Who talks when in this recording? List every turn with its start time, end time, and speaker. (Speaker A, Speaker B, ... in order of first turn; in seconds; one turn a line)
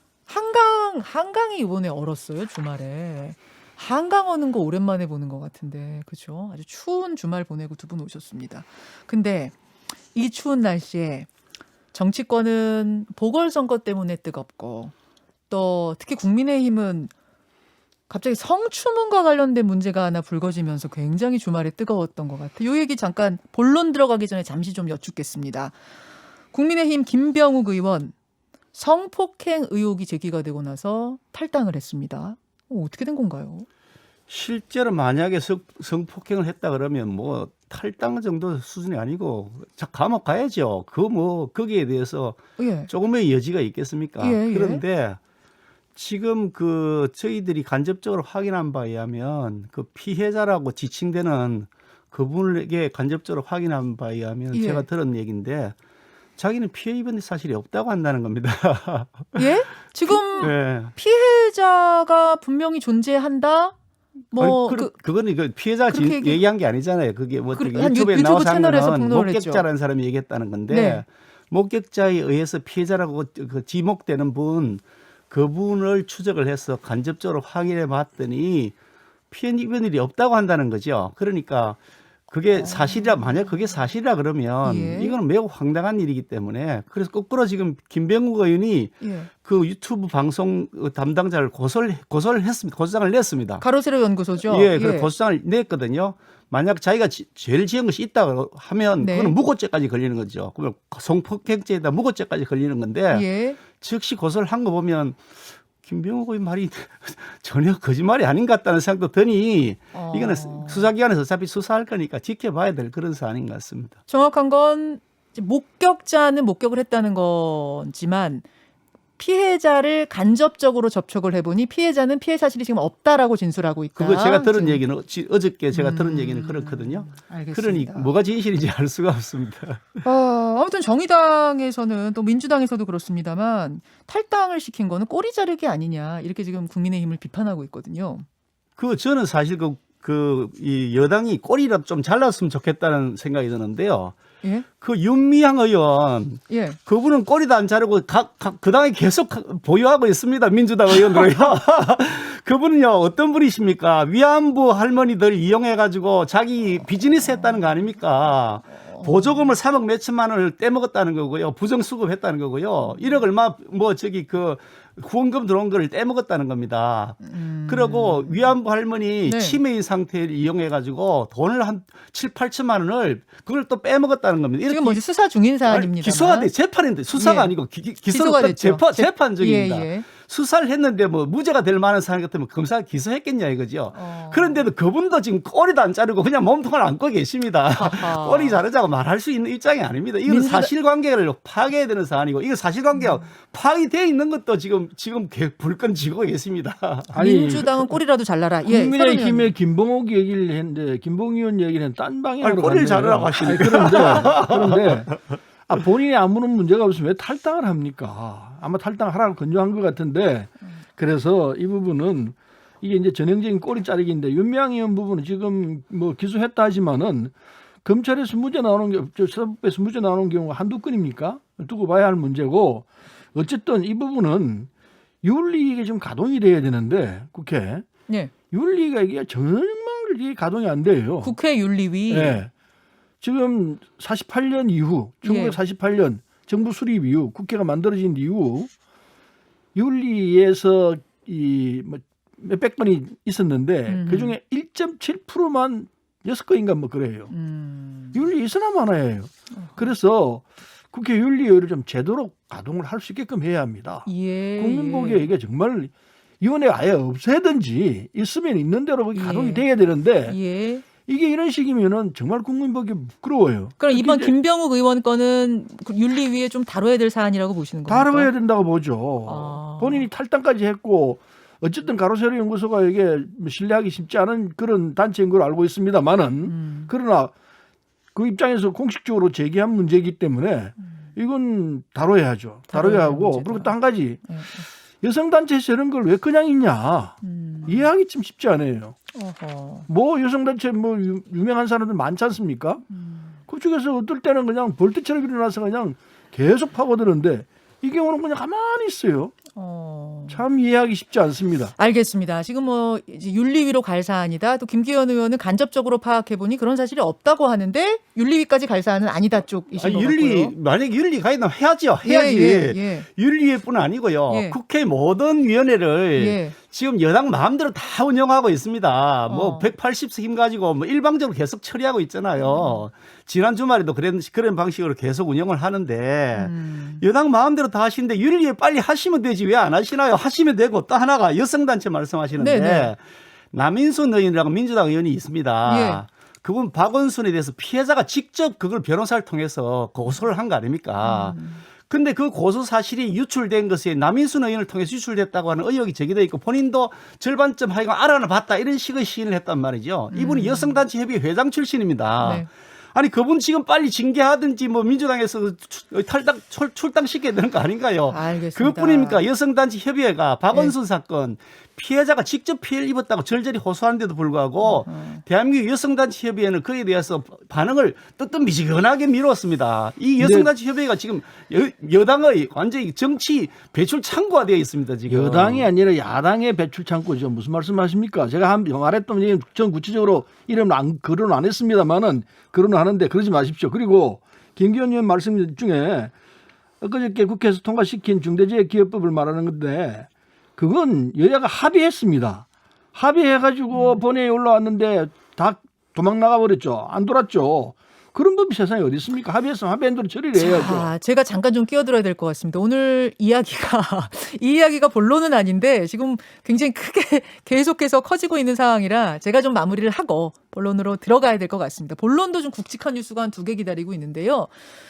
Speaker A: 0.3-9.5
Speaker A: 10.1-11.3
Speaker A: 11.9-14.9
Speaker A: 15.5-17.1
Speaker A: 18.1-25.8
Speaker A: 26.5-28.1
Speaker A: 28.7-33.7
Speaker B: 34.3-45.2
Speaker A: 42.6-42.9
Speaker A: 44.2-44.8
Speaker B: 46.0-55.7
Speaker A: 54.5-54.8
Speaker B: 56.4-59.5
Speaker A: 59.4-63.8
Speaker B: 60.1-60.9
Speaker A: 64.3-65.0
Speaker B: 64.3-78.8
Speaker A: 65.9-66.4
Speaker A: 67.5-69.7
Speaker A: 70.7-71.0
Speaker B: 79.3-81.8
Speaker B: 82.3-93.6
Speaker A: 82.5-83.4
Speaker A: 84.6-85.2
Speaker A: 89.0-89.3
Speaker A: 93.6-95.1
Speaker B: 94.4-105.2
Speaker A: 99.0-99.3
Speaker A: 103.1-103.6
Speaker B: 105.8-114.0
Speaker A: 109.9-110.9
Speaker A: 114.1-118.4
Speaker A: 119.2-124.8
Speaker B: 124.0-130.0
Speaker A: 125.7-128.1
Speaker A: 130.0-138.2
Speaker B: 138.8-144.2
Speaker B: 144.8-175.0
Speaker A: 146.5-146.8
Speaker A: 158.8-159.5
Speaker A: 162.8-163.2
Speaker A: 167.2-168.6
Speaker A: 169.2-169.6
Speaker A: 174.7-176.5
Speaker B: 175.6-197.1
Speaker A: 177.1-180.1
Speaker A: 183.9-184.7
Speaker A: 187.8-188.6
Speaker A: 190.2-190.7
Speaker A: 192.9-193.2
Speaker C: 197.1-198.0
Speaker A: 197.2-199.5
Speaker C: 198.7-217.3
Speaker B: 202.4-204.7
Speaker C: 217.8-224.7
Speaker C: 225.2-227.8
Speaker C: 228.5-231.3
Speaker A: 231.2-232.4
Speaker C: 232.1-232.5
Speaker C: 233.2-238.7
Speaker A: 235.2-235.6
Speaker C: 239.7-247.3
Speaker A: 243.9-244.3
Speaker A: 247.3-248.1
Speaker C: 248.1-260.4
Speaker A: 249.5-249.9
Speaker A: 254.1-255.3
Speaker A: 259.1-259.6
Speaker A: 260.3-260.8
Speaker C: 261.0-264.3
Speaker A: 263.8-268.3
Speaker C: 267.9-277.3
Speaker A: 269.2-270.1
Speaker A: 276.5-276.9
Speaker C: 278.1-284.2
Speaker A: 282.7-284.6
Speaker C: 285.0-289.0
Speaker A: 287.2-287.9
Speaker A: 289.1-289.9
Speaker C: 289.9-292.8
Speaker A: 292.9-293.4
Speaker C: 293.5-299.3
Speaker A: 299.5-300.4
Speaker C: 300.3-301.7
Speaker A: 301.8-310.5
Speaker B: 309.8-333.0
Speaker A: 312.0-313.1
Speaker A: 314.3-314.6
Speaker A: 316.2-316.6
Speaker A: 319.3-319.7
Speaker A: 322.4-322.9
Speaker A: 326.3-327.0
Speaker A: 332.4-332.9
Speaker B: 333.5-375.7
Speaker A: 335.6-336.0
Speaker A: 341.0-341.6
Speaker A: 350.1-350.8
Speaker A: 352.2-352.5
Speaker A: 358.1-359.2
Speaker A: 364.6-365.2
Speaker C: 370.2-370.5
Speaker C: 375.1-386.1
Speaker C: 386.8-400.9
Speaker A: 393.7-394.0
Speaker A: 400.4-414.5